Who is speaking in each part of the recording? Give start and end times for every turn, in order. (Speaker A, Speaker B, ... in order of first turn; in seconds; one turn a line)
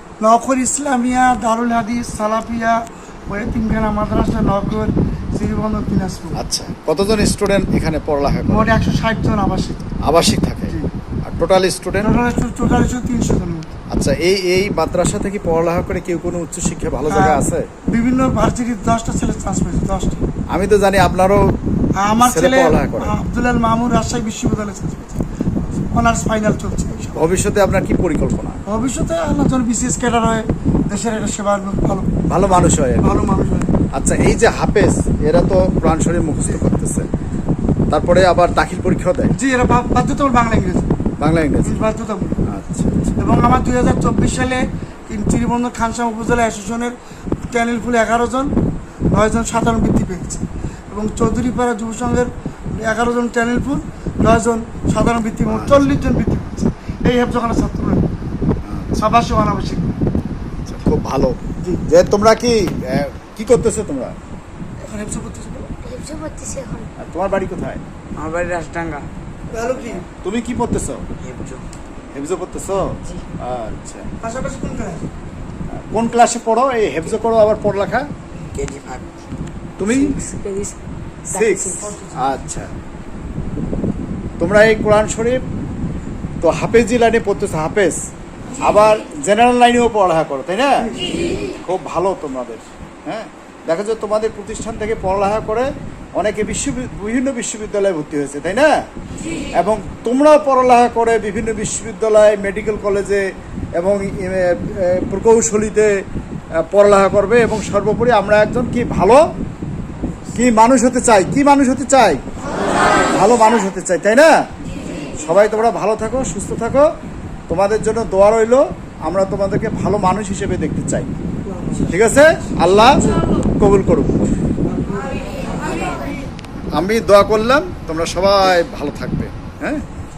Speaker A: 0.2-6.4
Speaker B: 6.4-8.7
Speaker A: 8.5-9.8
Speaker B: 10.0-12.2
Speaker A: 12.0-13.6
Speaker B: 13.9-17.7
Speaker A: 17.1-20.2
Speaker B: 20.5-21.5
Speaker A: 22.0-27.3
Speaker B: 22.2-23.1
Speaker B: 27.1-28.6
Speaker A: 28.7-32.1
Speaker B: 32.3-33.1
Speaker A: 33.0-33.7
Speaker B: 33.9-37.1
Speaker B: 37.9-39.3
Speaker A: 39.4-40.9
Speaker B: 41.2-41.8
Speaker A: 41.6-42.4
Speaker B: 42.5-43.1
Speaker A: 43.2-46.9
Speaker A: 47.5-48.5
Speaker A: 49.1-58.0
Speaker B: 55.5-55.9
Speaker B: 58.6-59.0
Speaker A: 59.0-59.9
Speaker B: 60.7-64.1
Speaker A: 64.8-65.7
Speaker C: 65.8-66.9
Speaker B: 67.0-67.8
Speaker D: 68.2-69.1
Speaker A: 69.5-70.1
Speaker B: 69.5-71.0
Speaker D: 71.2-71.6
Speaker B: 72.1-74.1
Speaker A: 74.2-75.1
Speaker B: 75.7-78.1
Speaker D: 78.5-79.0
Speaker B: 79.8-80.2
Speaker C: 79.9-80.8
Speaker C: 81.3-81.9
Speaker B: 81.3-82.7
Speaker A: 81.8-82.4
Speaker B: 84.4-85.4
Speaker B: 86.4-88.0
Speaker B: 88.6-98.7
Speaker B: 99.6-106.0
Speaker B: 106.7-109.2
Speaker B: 110.3-112.2
Speaker B: 113.0-114.3
Speaker B: 115.2-116.9
Speaker B: 117.5-121.2
Speaker B: 121.8-124.3
Speaker B: 126.8-129.8